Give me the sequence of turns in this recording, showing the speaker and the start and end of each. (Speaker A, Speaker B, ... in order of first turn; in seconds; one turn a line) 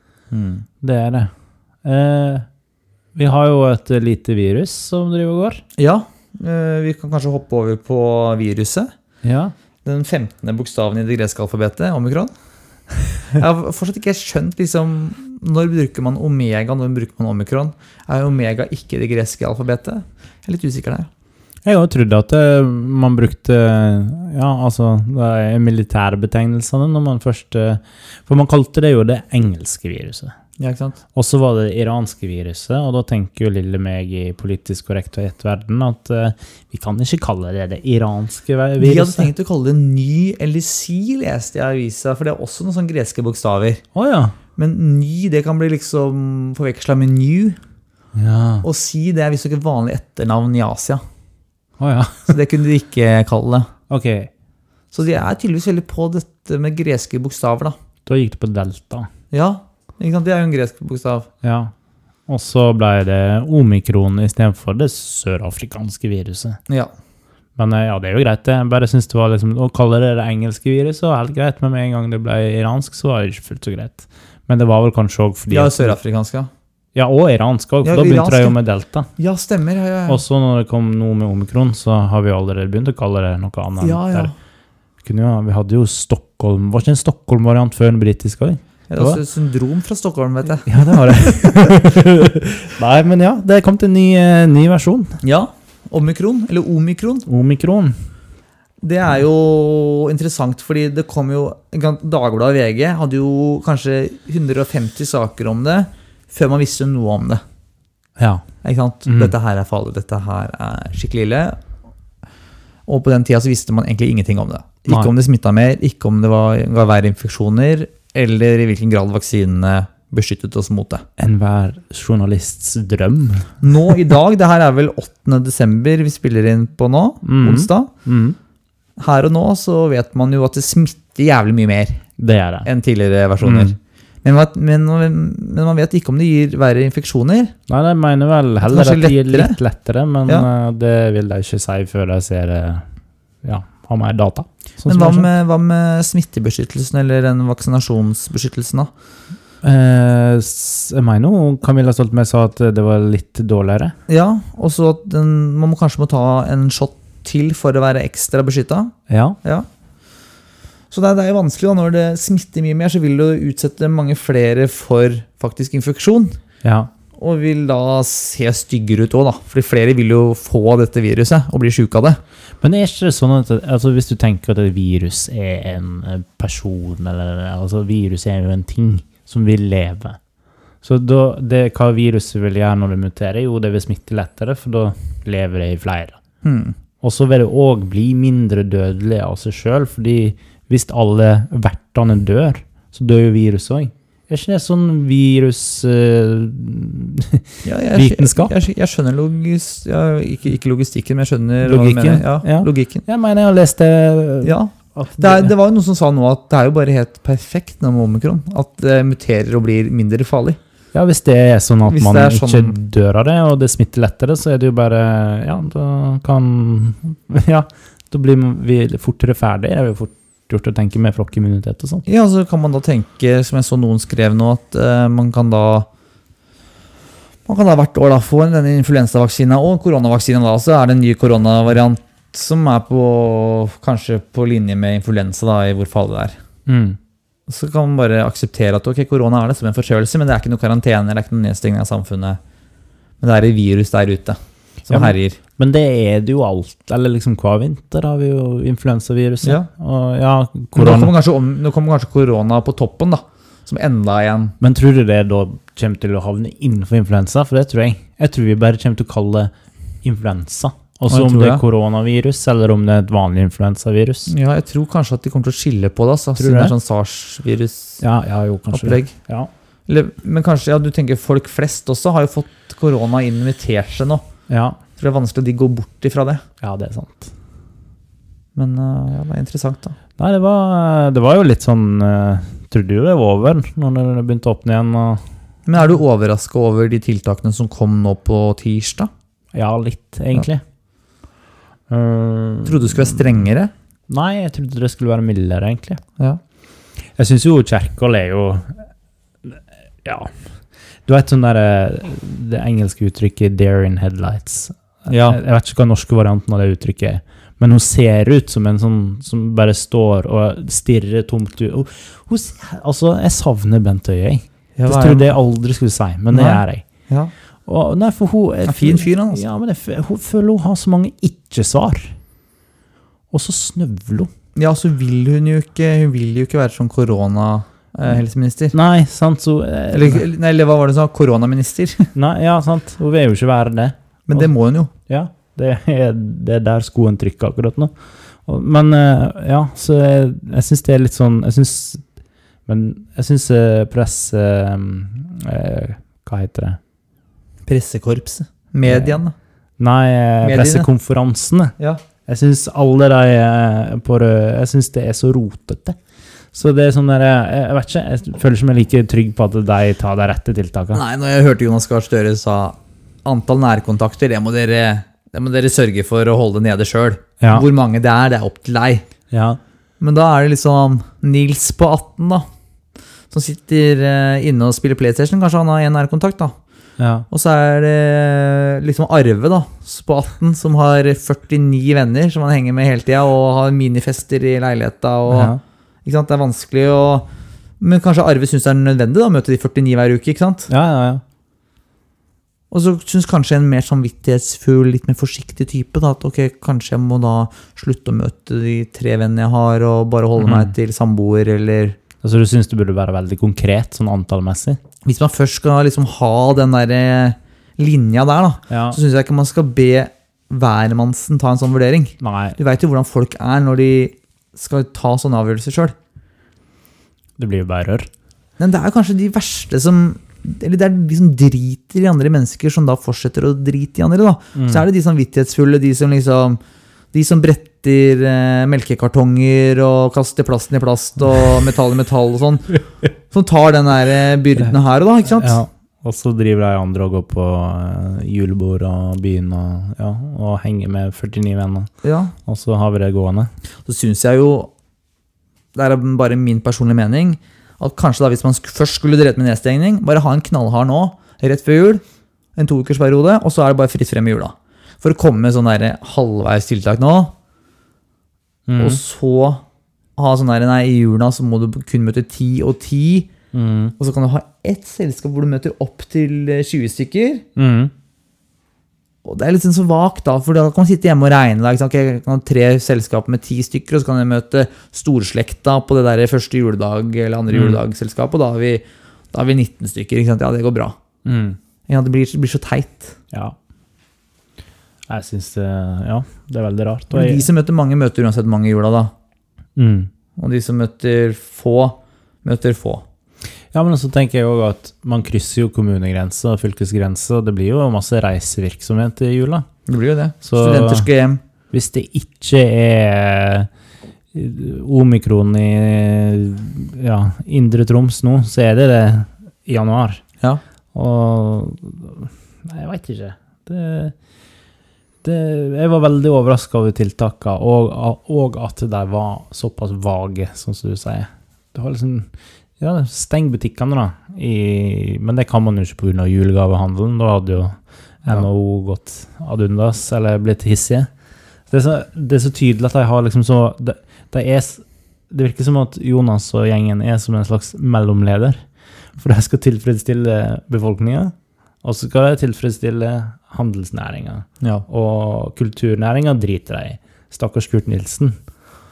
Speaker A: 0.3-0.7
Speaker B: 0.8-1.3
Speaker B: 1.8-2.5
Speaker B: 3.1-5.6
Speaker A: 5.8-8.9
Speaker B: 9.2-9.5
Speaker A: 9.8-12.3
Speaker A: 13.2-21.1
Speaker B: 21.6-30.3
Speaker A: 30.6-31.0
Speaker B: 31.1-39.3
Speaker A: 38.8-43.8
Speaker B: 44.0-44.4
Speaker A: 44.6-47.6
Speaker B: 48.1-48.6
Speaker A: 48.6-51.0
Speaker B: 51.8-52.3
Speaker A: 52.3-53.7
Speaker B: 53.9-54.3
Speaker A: 54.9-57.8
Speaker B: 58.1-59.1
Speaker A: 59.3-61.3
Speaker B: 61.4-61.7
Speaker B: 62.3-66.6
Speaker B: 67.6-76.0
Speaker A: 75.5-76.5
Speaker B: 77.0-79.1
Speaker A: 77.8-78.6
Speaker A: 79.2-80.2
Speaker B: 80.1-84.3
Speaker A: 83.8-84.3
Speaker B: 85.0-89.2
Speaker A: 88.9-91.7
Speaker B: 90.7-95.2
Speaker A: 95.2-97.3
Speaker B: 97.3-98.0
Speaker A: 98.8-107.4
Speaker B: 108.2-108.4
Speaker A: 108.6-111.6
Speaker B: 109.1-109.3
Speaker A: 112.9-121.1
Speaker B: 121.2-123.6
Speaker A: 123.6-127.9
Speaker B: 127.2-128.4
Speaker A: 129.0-132.0
Speaker B: 132.2-132.7
Speaker A: 132.7-137.6
Speaker B: 133.4-133.8
Speaker B: 137.7-142.8
Speaker A: 138.6-139.6
Speaker B: 143.4-145.3
Speaker A: 144.9-148.9
Speaker B: 149.6-153.9
Speaker A: 154.1-159.7
Speaker B: 159.1-159.4
Speaker A: 160.9-166.4
Speaker B: 166.6-166.9
Speaker A: 167.2-172.2
Speaker B: 172.6-180.2
Speaker B: 180.8-186.2
Speaker A: 186.4-186.8
Speaker B: 187.0-198.5
Speaker A: 197.7-203.1
Speaker B: 201.6-205.5
Speaker A: 204.4-210.6
Speaker B: 210.9-222.1
Speaker A: 211.9-212.8
Speaker A: 222.1-225.9
Speaker A: 227.5-236.4
Speaker B: 236.7-237.0
Speaker A: 237.5-242.4
Speaker A: 243.2-245.4
Speaker B: 244.9-251.1
Speaker A: 250.8-254.6
Speaker B: 254.6-259.5
Speaker B: 260.0-264.3
Speaker A: 261.1-261.6
Speaker A: 264.3-268.0
Speaker B: 266.4-266.7
Speaker B: 268.0-269.5
Speaker A: 268.7-269.1
Speaker A: 269.9-274.2
Speaker B: 274.5-274.8
Speaker A: 275.0-276.4
Speaker B: 276.6-277.3
Speaker A: 278.6-280.0
Speaker B: 280.2-285.2
Speaker A: 285.7-289.1
Speaker B: 289.5-290.6
Speaker B: 291.9-293.3
Speaker A: 292.6-293.7
Speaker B: 294.1-296.0
Speaker B: 297.2-298.8
Speaker B: 299.4-300.4
Speaker B: 301.1-316.9
Speaker A: 305.1-305.4
Speaker A: 314.8-315.4
Speaker A: 316.3-317.3
Speaker B: 317.7-322.1
Speaker A: 318.6-319.4
Speaker B: 323.3-324.3
Speaker A: 324.6-328.8
Speaker B: 328.7-330.2
Speaker A: 329.9-332.1
Speaker B: 332.1-334.5
Speaker A: 334.3-334.9
Speaker B: 335.1-337.9
Speaker B: 338.5-342.0
Speaker B: 342.7-346.8
Speaker A: 347.7-349.3
Speaker B: 348.9-349.2
Speaker B: 349.8-351.7
Speaker A: 350.4-350.9
Speaker B: 352.3-356.0
Speaker B: 356.5-361.0
Speaker A: 360.9-369.1
Speaker B: 367.4-367.7
Speaker B: 369.3-369.6
Speaker A: 370.0-372.5
Speaker A: 373.3-376.5
Speaker B: 377.0-377.3
Speaker A: 377.3-387.3
Speaker B: 385.3-385.6
Speaker A: 387.8-390.7
Speaker B: 390.7-391.2
Speaker A: 392.7-402.0
Speaker B: 400.4-400.7
Speaker B: 402.2-404.8
Speaker A: 405.1-415.9
Speaker B: 408.7-409.0
Speaker B: 412.2-412.6
Speaker B: 417.4-418.1
Speaker A: 418.6-426.6
Speaker B: 424.6-424.9
Speaker A: 427.1-432.8
Speaker A: 433.3-435.6
Speaker B: 435.3-441.9
Speaker A: 442.0-442.3
Speaker B: 442.5-443.5
Speaker A: 443.9-444.7
Speaker A: 445.8-452.0
Speaker A: 452.6-457.3
Speaker B: 458.7-459.0
Speaker A: 458.8-459.6
Speaker A: 460.2-463.3
Speaker B: 463.5-463.9
Speaker A: 464.0-467.4
Speaker B: 467.6-467.9
Speaker A: 469.2-480.9
Speaker B: 477.5-477.8
Speaker B: 481.2-481.6
Speaker A: 481.9-483.2
Speaker B: 485.1-487.4
Speaker A: 487.1-489.1
Speaker B: 489.8-490.1
Speaker A: 490.4-493.0
Speaker B: 493.7-499.7
Speaker A: 499.9-501.4
Speaker B: 500.4-501.1
Speaker B: 501.7-503.7
Speaker B: 504.3-510.2
Speaker B: 510.9-514.1
Speaker B: 515.2-531.1
Speaker B: 531.7-538.6
Speaker B: 539.2-548.4